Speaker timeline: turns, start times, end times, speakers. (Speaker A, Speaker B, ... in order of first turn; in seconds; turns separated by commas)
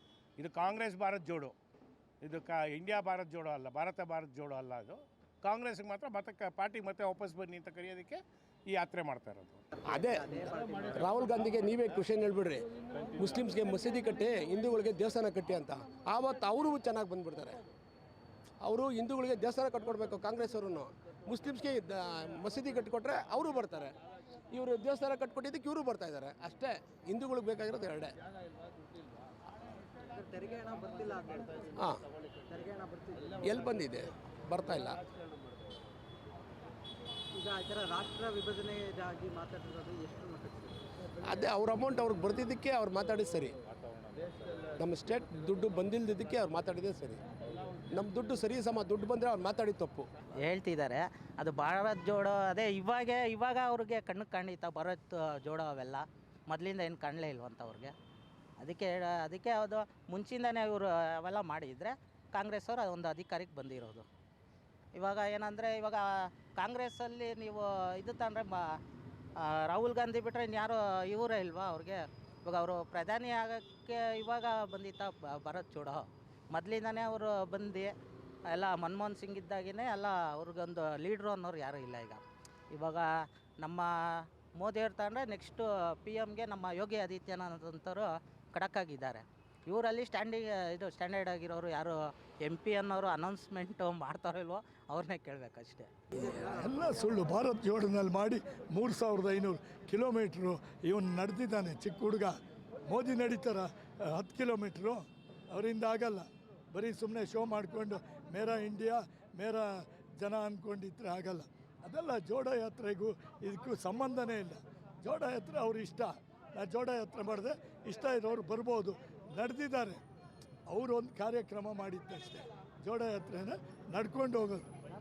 Speaker A: 0.4-1.5, Speaker A: 2.2-9.7, Speaker B: 9.8-17.6, Speaker B: 18.6-24.0, Speaker B: 24.5-28.1, Speaker C: 30.1-31.7, Speaker B: 31.7-32.0, Speaker C: 32.5-33.2, Speaker B: 33.2-35.0, Speaker C: 37.3-40.8, Speaker B: 41.2-43.5, Speaker B: 44.8-47.2, Speaker B: 47.9-50.1, Speaker D: 50.4-57.9, Speaker D: 58.6-64.1, Speaker D: 64.9-68.8, Speaker D: 69.4-77.9, Speaker D: 78.5-95.9, Speaker E: 96.1-102.3, Speaker E: 102.9-120.0, Speaker E: 120.7-124.7